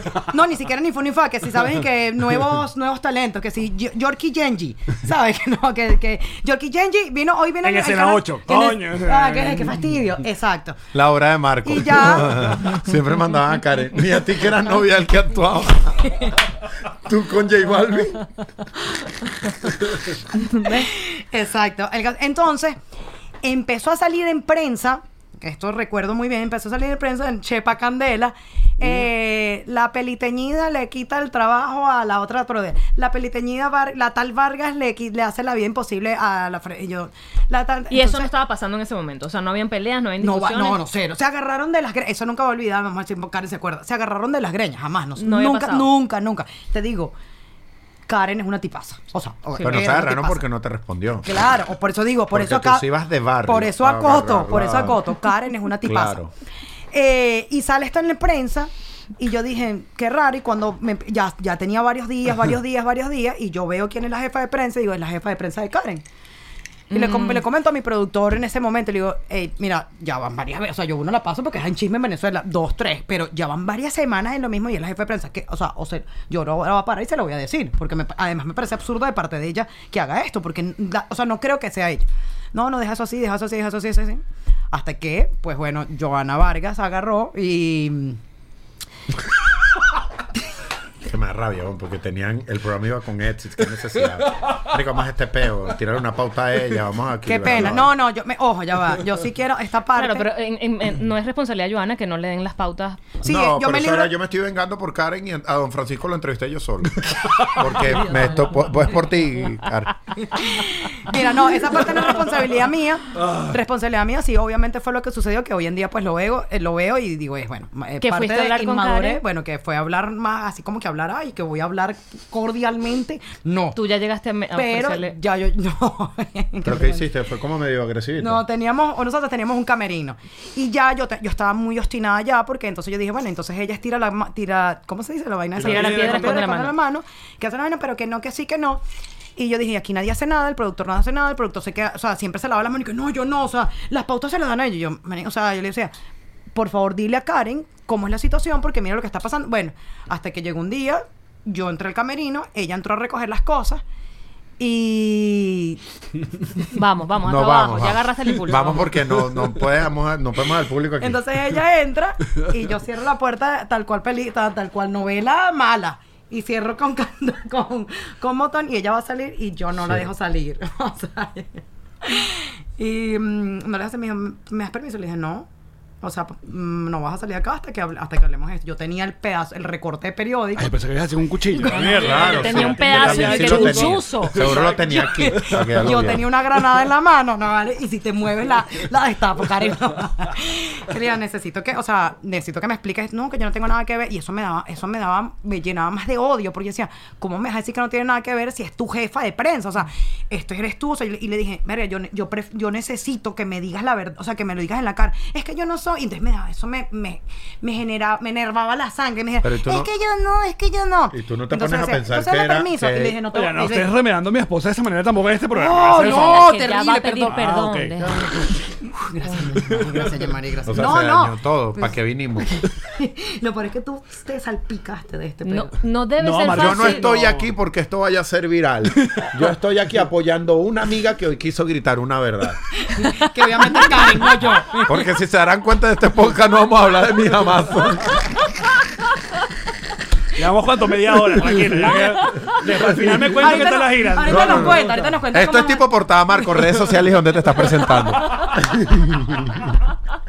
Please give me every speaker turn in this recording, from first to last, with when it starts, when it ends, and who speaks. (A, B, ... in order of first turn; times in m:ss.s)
0:00.3-0:10.8 A
0:07.6-0:09.9 B
0:10.9-0:16.1 C
0:11.6-0:12.8 A
0:16.9-0:18.3 C
0:20.5-0:20.8 D
0:20.6-0:22.8 A
0:23.4-0:38.3 A
0:37.9-0:40.8 D
0:40.2-0:47.1 A
0:45.2-0:45.9 D
0:48.1-0:50.4 A
0:49.6-0:51.4 C
0:51.2-0:52.8 A
0:52.3-0:55.0 C
0:53.4-0:56.2 A
0:55.8-0:56.3 C
0:56.9-1:06.0 A
1:06.9-1:07.4 D
1:06.9-1:28.2 A
1:31.0-1:37.9 C
1:37.2-1:40.3 A
1:39.9-1:43.1 D
1:43.2-1:44.1 A
1:43.2-1:49.9 C
1:47.2-1:47.6 B
1:47.7-1:48.7 A
1:50.2-2:03.8 A
1:53.2-1:53.6 B
1:58.0-1:59.2 D
2:03.7-2:05.2 D
2:04.5-2:07.0 A
2:06.6-2:08.4 C
2:08.2-2:18.8 A
2:15.6-2:16.5 B
2:15.6-2:16.7 D
2:19.4-2:25.9 A
2:26.5-2:33.8 A
2:34.6-2:35.8 A
2:36.7-2:38.9 D
2:37.2-2:41.6 C
2:41.0-2:55.5 A
2:49.8-2:50.0 C
2:56.0-3:00.7 A
3:00.6-3:06.2 B
3:01.5-3:02.4 A
3:01.7-3:04.5 D
3:02.0-3:06.2 C
3:04.7-3:33.9 A
3:29.4-3:29.9 C
3:31.1-3:33.2 C
3:33.3-3:36.5 B
3:35.5-3:37.4 A
3:35.9-3:38.3 D
3:37.3-3:38.4 B
3:38.8-3:45.7 A
3:39.7-3:40.1 B
3:40.6-3:42.6 C
3:45.4-3:47.1 D
3:46.2-3:47.5 B
3:46.5-3:52.6 C
3:49.0-3:49.3 B
3:52.8-3:55.0 A
3:53.6-3:54.0 D
3:54.8-3:58.5 C
4:00.3-4:04.9 B
4:02.8-4:03.2 C
4:03.4-4:05.9 A
4:04.2-4:09.8 C